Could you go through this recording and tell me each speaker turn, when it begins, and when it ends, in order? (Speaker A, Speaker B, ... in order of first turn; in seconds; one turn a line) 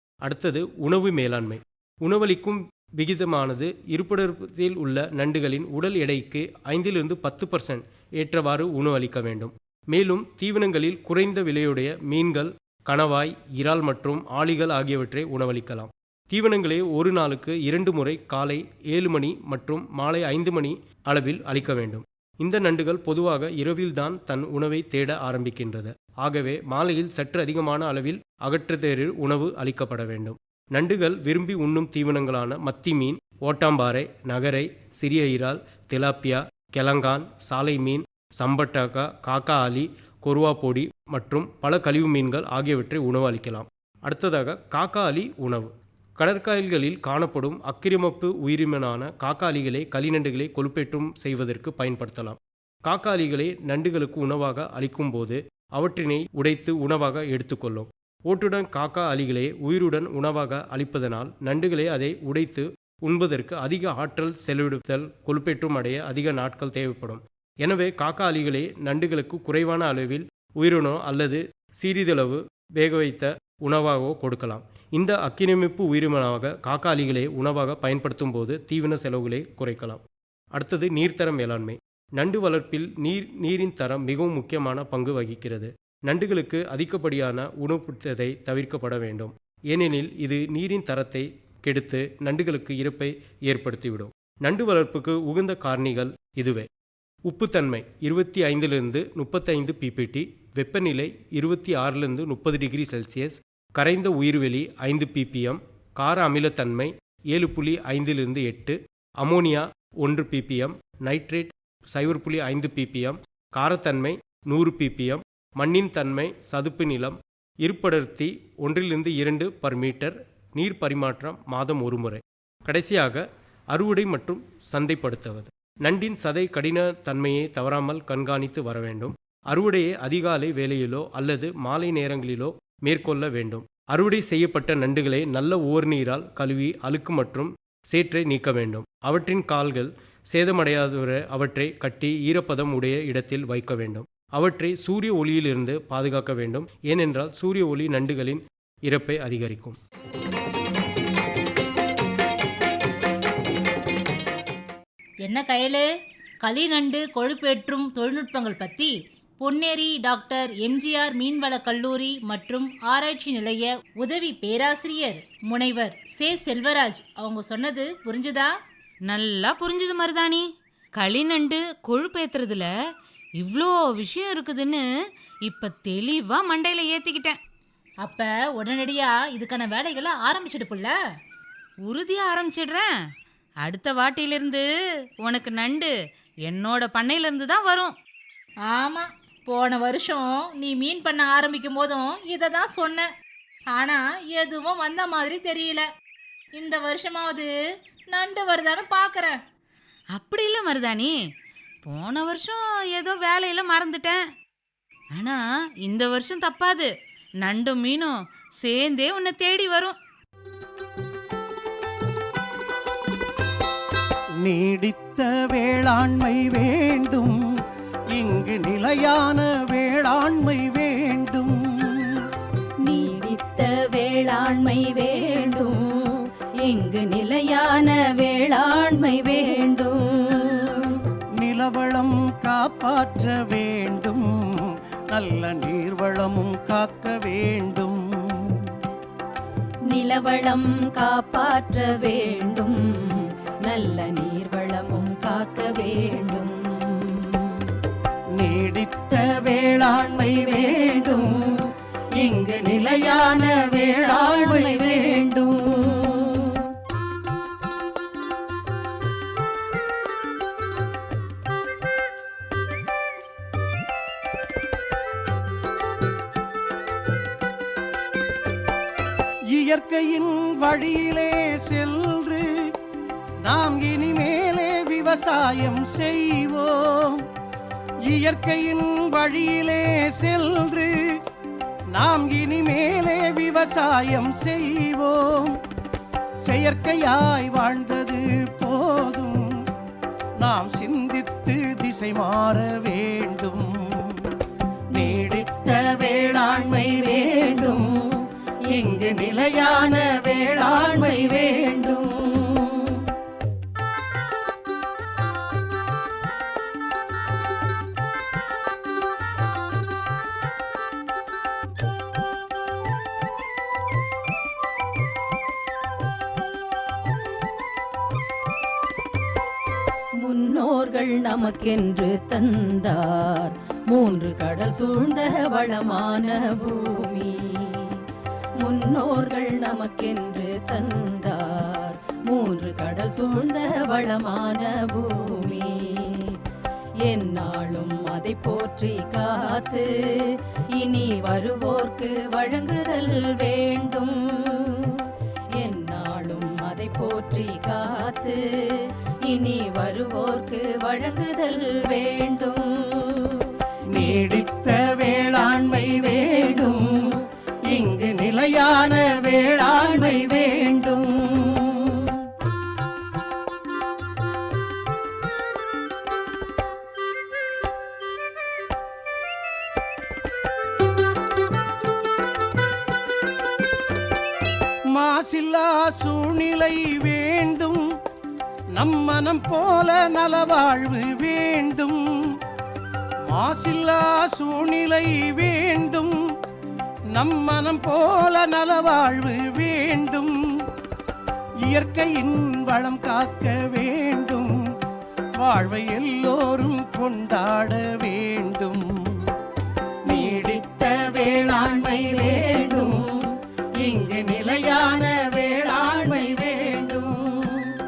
Speaker A: 0.2-80.0
Speaker A: 80.5-96.7
Speaker A: 97.2-149.8
Speaker B: 155.2-155.8
Speaker B: 156.4-168.5
Speaker C: 169.1-172.7
Speaker C: 173.4-174.8
Speaker C: 175.4-177.4
Speaker B: 178.0-180.9
Speaker C: 181.8-182.9
Speaker C: 183.6-184.7
Speaker C: 185.2-185.9
Speaker C: 186.5-187.9
Speaker B: 188.7-193.1
Speaker B: 193.7-195.9
Speaker B: 196.6-197.5
Speaker B: 198.1-199.4
Speaker C: 200.1-201.1
Speaker C: 201.8-204.2
Speaker C: 205.2-206.9
Speaker C: 207.4-209.9
Speaker D: 214.4-217.4
Speaker D: 218.1-222.1
Speaker E: 222.8-225.8
Speaker E: 226.6-230.7
Speaker D: 231.4-238.6
Speaker E: 239.9-247.4
Speaker D: 248.4-251.2
Speaker D: 252.2-255.5
Speaker E: 252.5-252.8
Speaker E: 254.0-255.2
Speaker D: 269.5-272.4
Speaker D: 273.4-277.2
Speaker D: 278.0-280.9
Speaker D: 281.9-285.6
Speaker D: 286.4-289.4
Speaker D: 290.4-294.1
Speaker D: 294.9-297.8
Speaker E: 295.0-295.2
Speaker D: 298.8-301.1
Speaker D: 301.7-302.0
Speaker E: 320.2-327.9
Speaker E: 328.6-336.3
Speaker E: 337.1-339.9
Speaker E: 340.8-344.9
Speaker E: 345.6-348.4
Speaker E: 349.3-353.1
Speaker D: 353.9-356.8
Speaker D: 357.7-361.9
Speaker D: 374.9-377.8
Speaker D: 378.8-382.0
Speaker D: 383.3-386.1
Speaker D: 387.1-390.3
Speaker D: 391.7-394.5
Speaker D: 395.4-398.9
Speaker D: 400.1-403.1
Speaker E: 400.1-400.6
Speaker D: 403.8-407.6